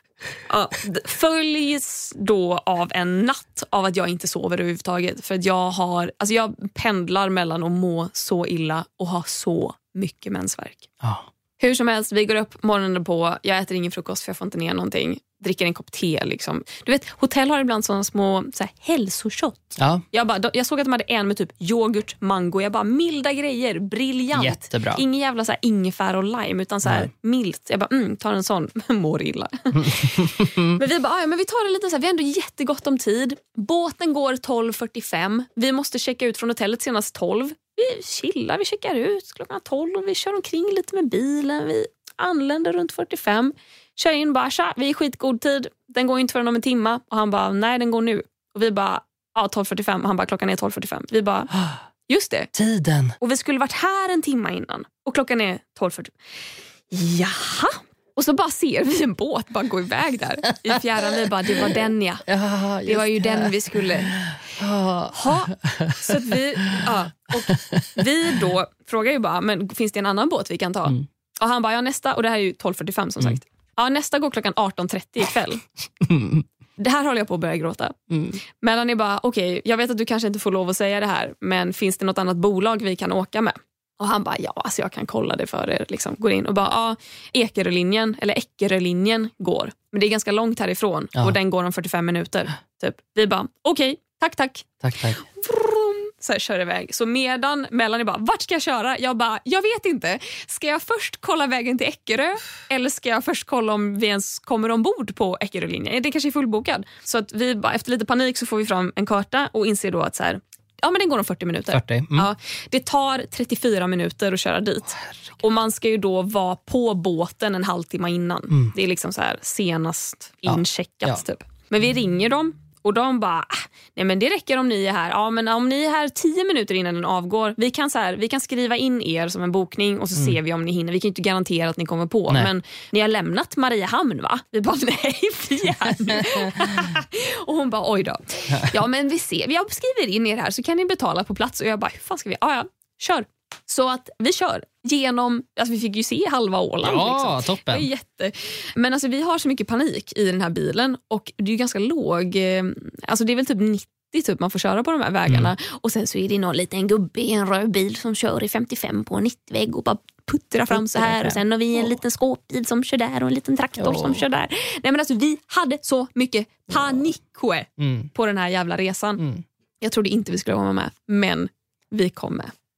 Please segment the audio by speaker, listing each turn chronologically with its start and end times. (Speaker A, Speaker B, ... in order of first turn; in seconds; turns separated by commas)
Speaker A: 0.5-10.9, Speaker B: 11.0-11.3, Speaker A: 11.6-51.5, Speaker B: 19.8-20.0, Speaker B: 24.3-25.0, Speaker B: 29.7-30.8, Speaker A: 52.1-52.5, Speaker B: 52.5-53.2, Speaker A: 53.2-56.1, Speaker A: 56.9-62.2, Speaker B: 62.2-66.9, Speaker A: 62.9-64.2, Speaker A: 65.1-75.6, Speaker B: 67.5-68.0, Speaker B: 76.0-76.4, Speaker A: 76.8-169.2, Speaker B: 78.1-78.4, Speaker B: 94.8-95.2, Speaker B: 111.7-112.3, Speaker B: 120.5-121.2, Speaker B: 136.2-136.8, Speaker B: 146.8-147.9, Speaker B: 160.7-161.9, Speaker B: 163.8-164.2, Speaker B: 167.8-168.1, Speaker B: 169.2-169.4, Speaker A: 169.8-172.5